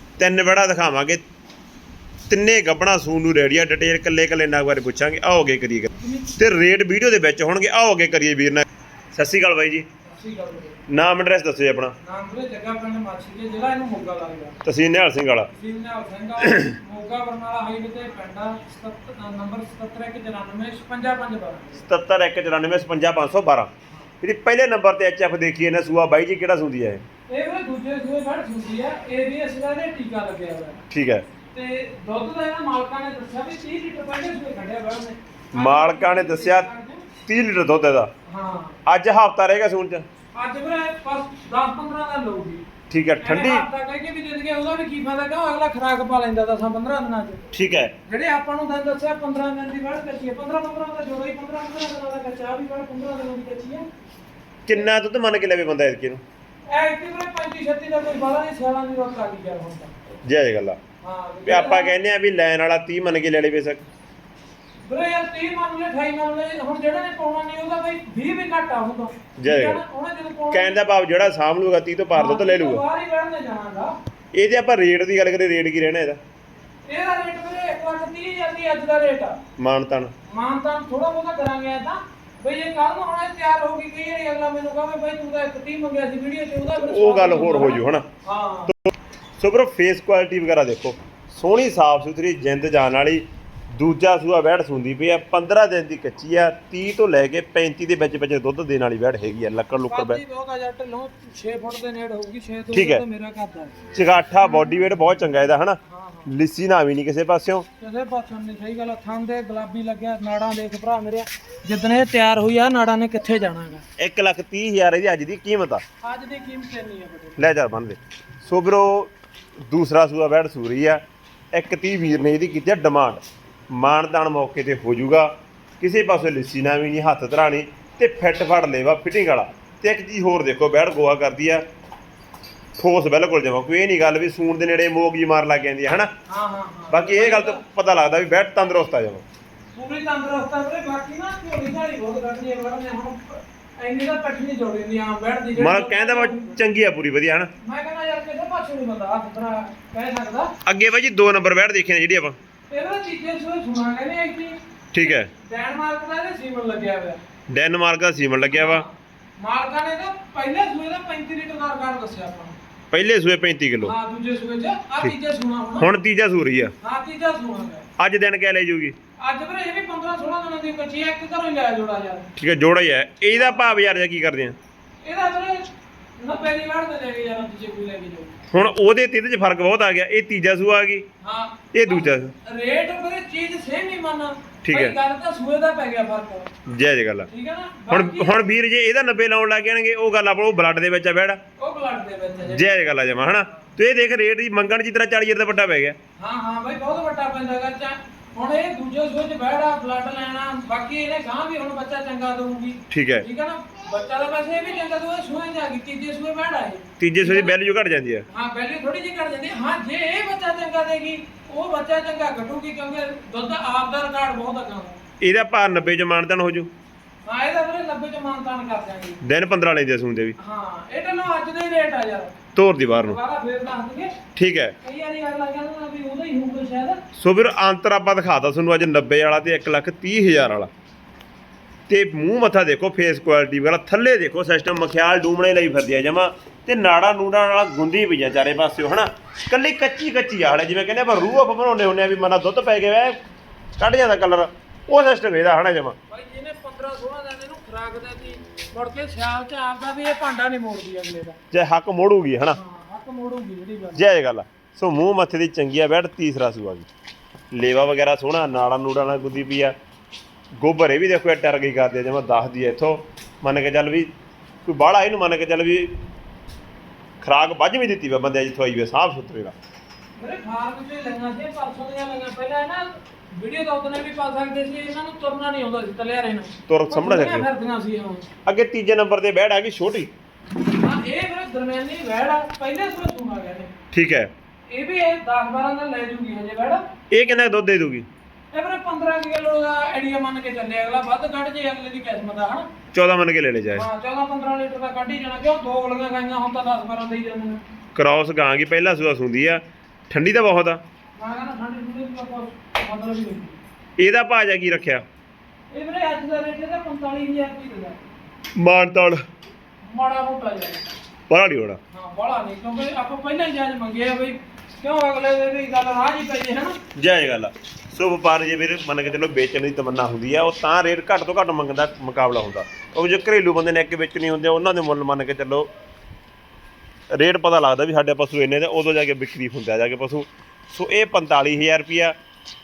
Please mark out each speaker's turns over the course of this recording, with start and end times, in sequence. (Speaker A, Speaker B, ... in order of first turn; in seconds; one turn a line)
Speaker A: 0.2-1.2
Speaker A: 2.3-9.9
Speaker B: 5.9-6.3
Speaker B: 10.0-10.8
Speaker A: 10.9-12.0
Speaker B: 12.0-14.6
Speaker A: 14.6-15.5
Speaker B: 15.5-21.8
Speaker A: 21.8-23.7
Speaker A: 24.2-27.0
Speaker B: 27.3-30.8
Speaker A: 30.9-31.3
Speaker B: 31.5-37.1
Speaker A: 35.5-36.7
Speaker A: 37.2-38.1
Speaker B: 38.3-38.8
Speaker A: 38.9-40.0
Speaker B: 40.3-42.6
Speaker A: 42.9-43.7
Speaker B: 43.2-47.5
Speaker A: 47.5-47.9
Speaker B: 48.1-53.9
Speaker A: 54.7-56.2
Speaker B: 56.7-59.9
Speaker A: 60.2-60.8
Speaker B: 61.0-61.9
Speaker A: 61.5-63.8
Speaker B: 64.8-70.7
Speaker A: 69.4-69.8
Speaker A: 70.5-72.8
Speaker B: 72.1-73.9
Speaker A: 74.3-76.2
Speaker B: 76.9-79.4
Speaker A: 79.6-80.1
Speaker B: 80.3-88.7
Speaker A: 86.8-88.1
Speaker A: 88.7-100.2
Speaker B: 99.9-103.8
Speaker A: 102.7-103.0
Speaker A: 103.9-107.7
Speaker B: 104.4-104.8
Speaker B: 105.9-106.3
Speaker B: 107.8-113.8
Speaker A: 114.0-115.8
Speaker B: 116.0-117.4
Speaker A: 117.4-119.1
Speaker A: 119.7-121.0
Speaker A: 121.5-131.7
Speaker A: 132.8-136.1
Speaker B: 136.3-137.6
Speaker A: 136.9-139.2
Speaker B: 139.7-146.6
Speaker A: 145.6-147.5
Speaker B: 147.6-150.5
Speaker A: 150.7-152.4
Speaker B: 152.7-157.2
Speaker A: 154.9-155.3
Speaker A: 157.5-158.8
Speaker B: 158.5-162.6
Speaker A: 162.9-163.9
Speaker B: 163.8-165.9
Speaker A: 165.8-166.7
Speaker B: 166.8-167.9
Speaker A: 168.0-169.0
Speaker B: 169.2-172.3
Speaker A: 172.4-174.6
Speaker B: 173.3-173.7
Speaker B: 175.0-178.4
Speaker A: 178.5-181.1
Speaker B: 181.2-186.5
Speaker A: 181.7-182.3
Speaker A: 184.6-184.9
Speaker A: 186.7-187.3
Speaker B: 187.3-188.5
Speaker A: 187.9-191.4
Speaker B: 191.6-192.7
Speaker A: 192.5-196.0
Speaker B: 196.2-207.6
Speaker A: 202.9-203.3
Speaker A: 207.0-208.3
Speaker B: 208.3-215.0
Speaker A: 215.2-216.7
Speaker B: 217.2-219.2
Speaker A: 219.2-220.4
Speaker B: 220.4-222.4
Speaker A: 222.6-223.2
Speaker B: 223.0-224.2
Speaker A: 224.4-224.8
Speaker B: 224.8-227.0
Speaker A: 227.2-230.7
Speaker A: 231.9-243.2
Speaker A: 243.8-246.0
Speaker B: 246.1-251.4
Speaker A: 251.5-252.6
Speaker B: 252.5-254.0
Speaker A: 253.9-256.9
Speaker A: 257.5-259.8
Speaker A: 260.6-264.1
Speaker A: 264.6-266.0
Speaker A: 267.2-269.6
Speaker B: 270.2-278.3
Speaker A: 276.7-277.5
Speaker A: 278.5-280.1
Speaker B: 280.7-283.7
Speaker A: 283.9-284.3
Speaker B: 284.7-286.8
Speaker A: 287.1-288.1
Speaker B: 288.5-292.7
Speaker A: 292.9-293.9
Speaker B: 293.7-297.6
Speaker A: 297.9-300.8
Speaker B: 301.2-303.6
Speaker A: 304.0-305.1
Speaker B: 305.7-308.0
Speaker A: 308.6-309.2
Speaker B: 309.8-310.9
Speaker A: 311.3-311.8
Speaker B: 311.9-316.8
Speaker A: 316.9-325.7
Speaker A: 327.1-332.1